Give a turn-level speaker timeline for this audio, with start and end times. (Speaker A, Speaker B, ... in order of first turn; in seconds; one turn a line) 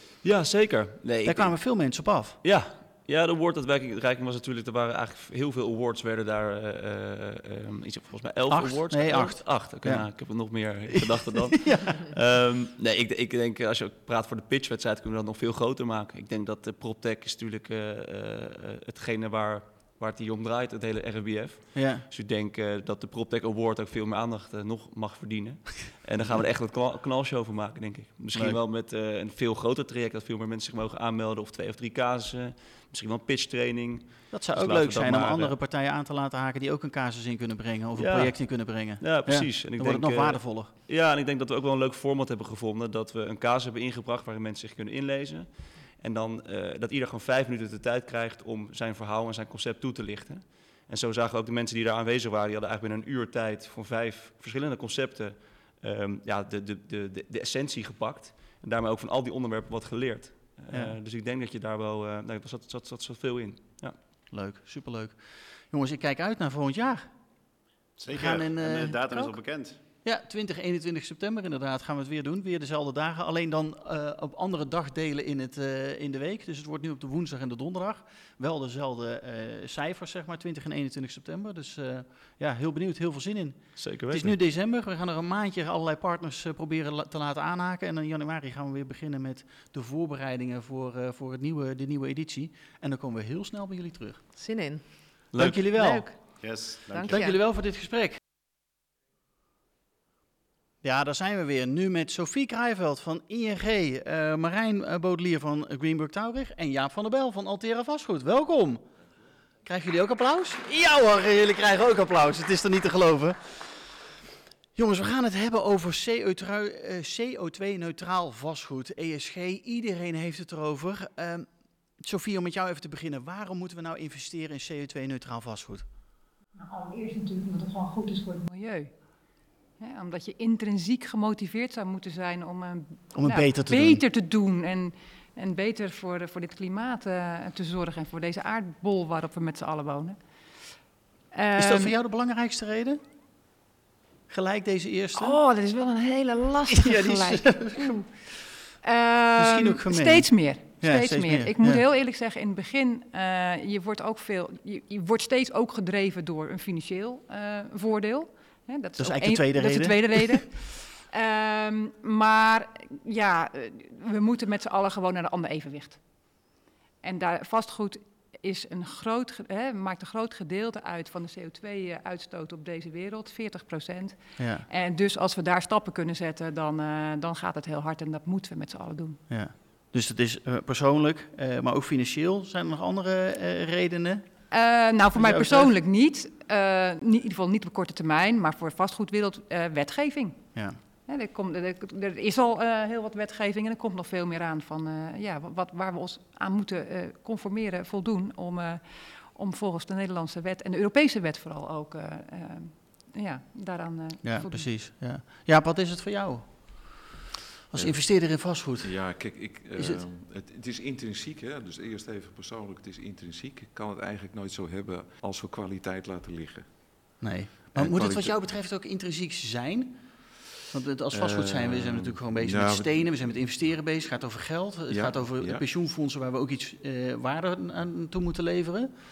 Speaker A: 0.2-35.5
Speaker B: 1.2-2.4
Speaker B: 8.5-10.7
Speaker B: 11.3-12.0
Speaker B: 21.7-22.0
Speaker B: 28.3-28.6
Speaker B: 34.3-40.7
Speaker A: 38.0-64.0
Speaker B: 60.7-61.0
Speaker B: 64.3-67.1
Speaker C: 68.0-69.8
Speaker B: 68.1-69.3
Speaker B: 70.0-94.2
Speaker A: 83.8-84.3
Speaker D: 94.3-97.3
Speaker A: 95.3-95.6
Speaker B: 95.3-98.2
Speaker C: 96.4-97.3
Speaker B: 100.8-108.9
Speaker B: 109.6-113.9
Speaker B: 114.7-125.9
Speaker E: 126.5-128.9
Speaker E: 129.8-140.8
Speaker B: 133.1-134.0
Speaker E: 141.3-141.9
Speaker B: 141.6-143.0
Speaker B: 144.3-145.3
Speaker E: 145.2-166.5
Speaker B: 146.7-147.9
Speaker B: 149.4-151.8
Speaker B: 159.0-160.4
Speaker E: 167.0-179.2
Speaker B: 174.4-174.6
Speaker B: 179.3-184.5
Speaker E: 184.5-204.7
Speaker B: 185.2-185.7
Speaker B: 204.2-207.1
Speaker B: 207.7-209.2
Speaker F: 207.7-217.1
Speaker B: 209.8-210.0
Speaker B: 217.2-220.1
Speaker F: 217.7-218.5
Speaker B: 220.7-228.9
Speaker F: 221.1-223.2
Speaker F: 224.9-225.6